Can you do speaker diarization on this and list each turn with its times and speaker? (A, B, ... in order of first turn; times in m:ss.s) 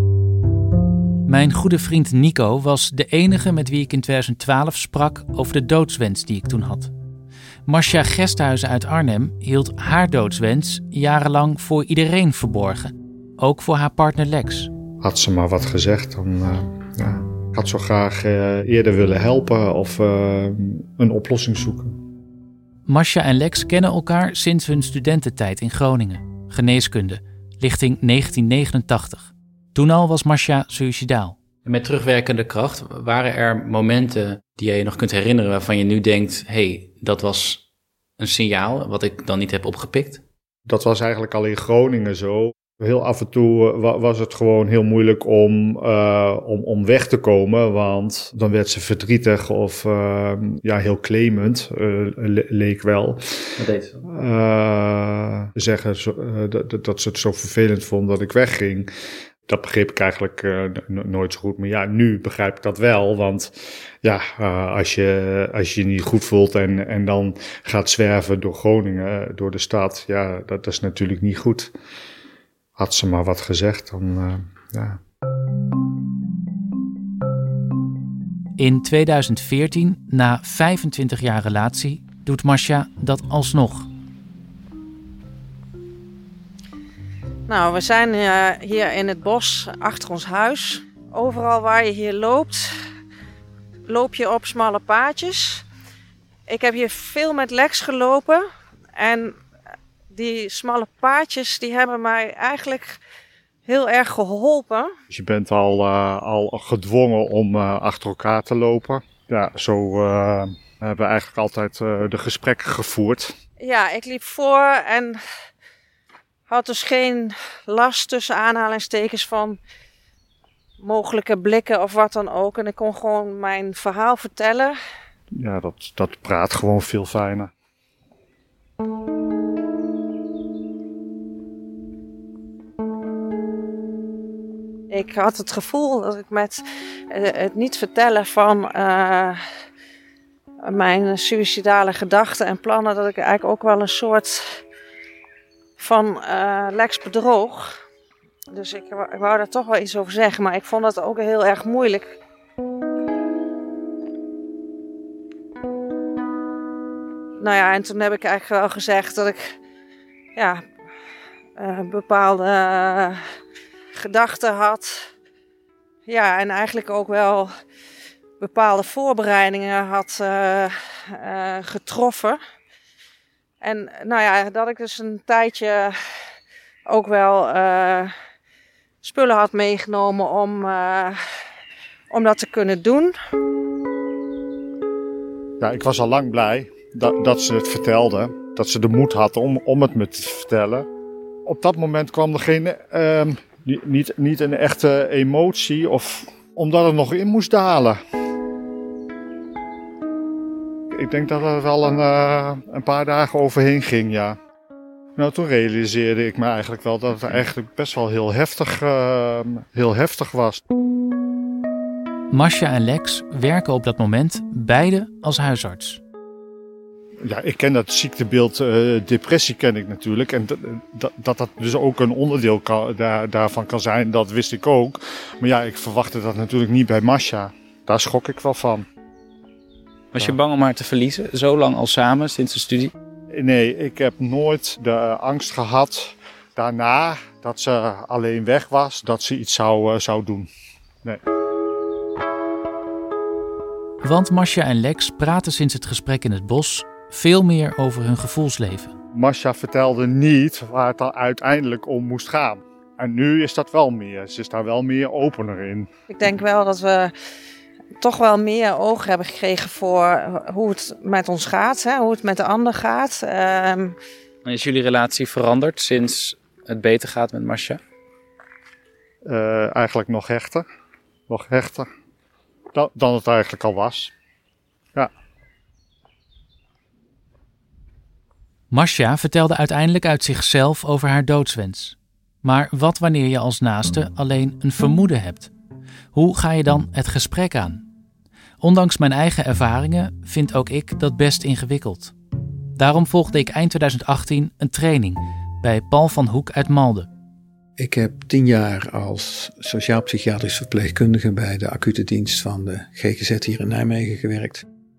0:01.2-0:06.9 A
0:07.6-0:14.7 A
0:15.0-0:22.0 B
0:22.8-0:31.4 A
0:31.6-0:37.6 C
0:38.2-0:40.2 C
0:40.6-0:58.9 B
0:53.6-0:54.0 C
0:59.4-1:11.7 B
1:12.8-1:15.0 B
1:18.6-1:23.9 A
1:27.5-1:32.7 D
1:33.9-1:35.6 D
1:36.5-1:39.4 D
1:40.1-1:43.0 D
1:43.6-1:44.9 D
1:45.1-1:53.3 B
1:53.6-1:55.2 D
1:56.5-1:59.6 D
2:00.8-2:04.8 D
2:05.3-2:07.5 B
2:14.9-2:19.4 D
2:20.6-2:24.6 D
2:25.8-2:27.8 D
2:28.5-2:32.2 D
2:37.4-2:39.6 D
2:40.4-2:40.6 D
2:41.6-2:43.3 D
2:43.9-2:45.1 D
2:46.1-2:47.5 D
2:48.4-2:52.4 D
2:53.6-2:56.3 D
2:56.9-2:58.1 D
2:59.0-3:01.4 D
3:02.1-3:03.1 D
3:05.6-3:10.8 B
3:11.4-3:18.0 B
3:20.9-3:24.4 B
3:25.2-3:30.6 B
3:32.3-3:36.0 A
3:37.2-3:48.8 B
3:50.1-3:52.9 C
3:53.3-4:00.5 B
4:04.0-4:08.9 A
4:09.1-4:15.9 B
4:16.1-4:17.1 D
4:18.0-4:24.0 D
4:24.4-4:27.8 C
4:29.2-4:30.6 B
4:31.3-4:31.9 B
4:32.7-4:34.1 B
4:38.7-4:45.5 A
4:46.1-4:47.8 A
4:48.6-4:52.1 A
4:52.8-4:57.1 A
4:57.8-5:04.6 E